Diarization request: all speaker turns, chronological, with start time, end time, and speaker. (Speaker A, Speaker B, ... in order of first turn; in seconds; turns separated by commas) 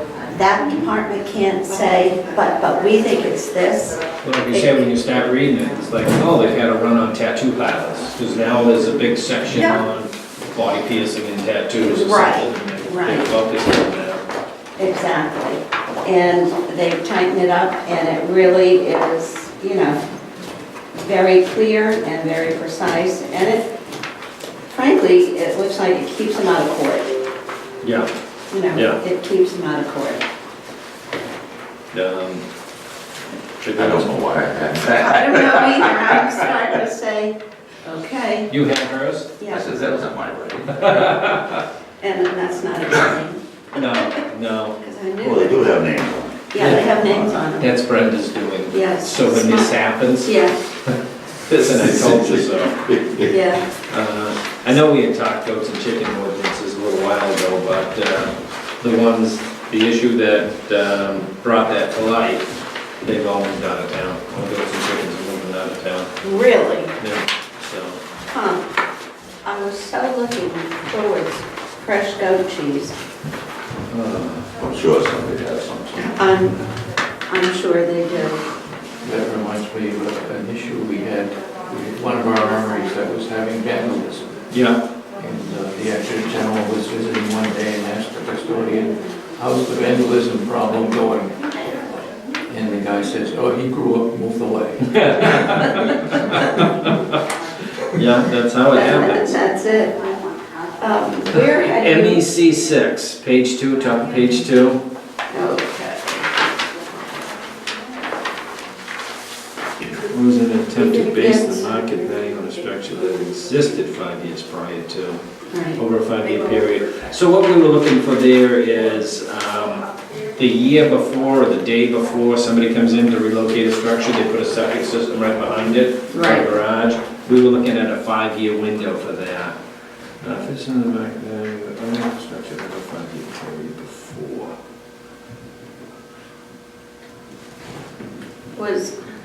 Speaker A: 0.3-4.8, Speaker B: 4.2-14.2, Speaker A: 9.5-9.8, Speaker A: 11.8-13.3, Speaker A: 14.8-20.0, Speaker A: 21.0-23.7, Speaker A: 24.7-27.1, Speaker B: 27.8-28.1, Speaker A: 28.5-30.2, Speaker B: 28.7-29.0, Speaker B: 31.9-32.5, Speaker B: 33.6-34.1, Speaker C: 33.8-36.3, Speaker A: 34.9-38.5, Speaker B: 38.5-39.4, Speaker A: 39.4-39.7, Speaker C: 39.5-41.1, Speaker B: 40.8-41.6, Speaker A: 42.0-44.2, Speaker B: 43.7-44.8, Speaker A: 44.8-45.8, Speaker C: 45.2-46.6, Speaker A: 46.5-47.7, Speaker B: 46.6-53.0, Speaker A: 48.7-50.5, Speaker C: 52.0-52.3, Speaker C: 52.8-53.3, Speaker A: 53.3-53.6, Speaker B: 53.9-62.5, Speaker B: 63.0-66.1, Speaker A: 66.2-66.9, Speaker B: 67.0-68.0, Speaker A: 68.3-68.7, Speaker A: 69.4-73.0, Speaker B: 73.9-74.5, Speaker C: 74.6-76.0, Speaker A: 76.0-76.6, Speaker A: 77.3-78.5, Speaker D: 79.0-84.4, Speaker B: 84.5-84.8, Speaker D: 85.2-91.5, Speaker D: 92.5-95.8, Speaker B: 94.8-97.2, Speaker B: 97.8-99.4, Speaker A: 98.7-100.1, Speaker A: 100.8-102.2, Speaker B: 101.7-104.8, Speaker A: 105.3-106.3, Speaker B: 109.8-115.2, Speaker A: 110.8-111.8, Speaker A: 115.5-115.8, Speaker B: 115.8-129.6, Speaker A: 126.1-126.5, Speaker B: 130.2-134.6, Speaker A: 138.6-138.9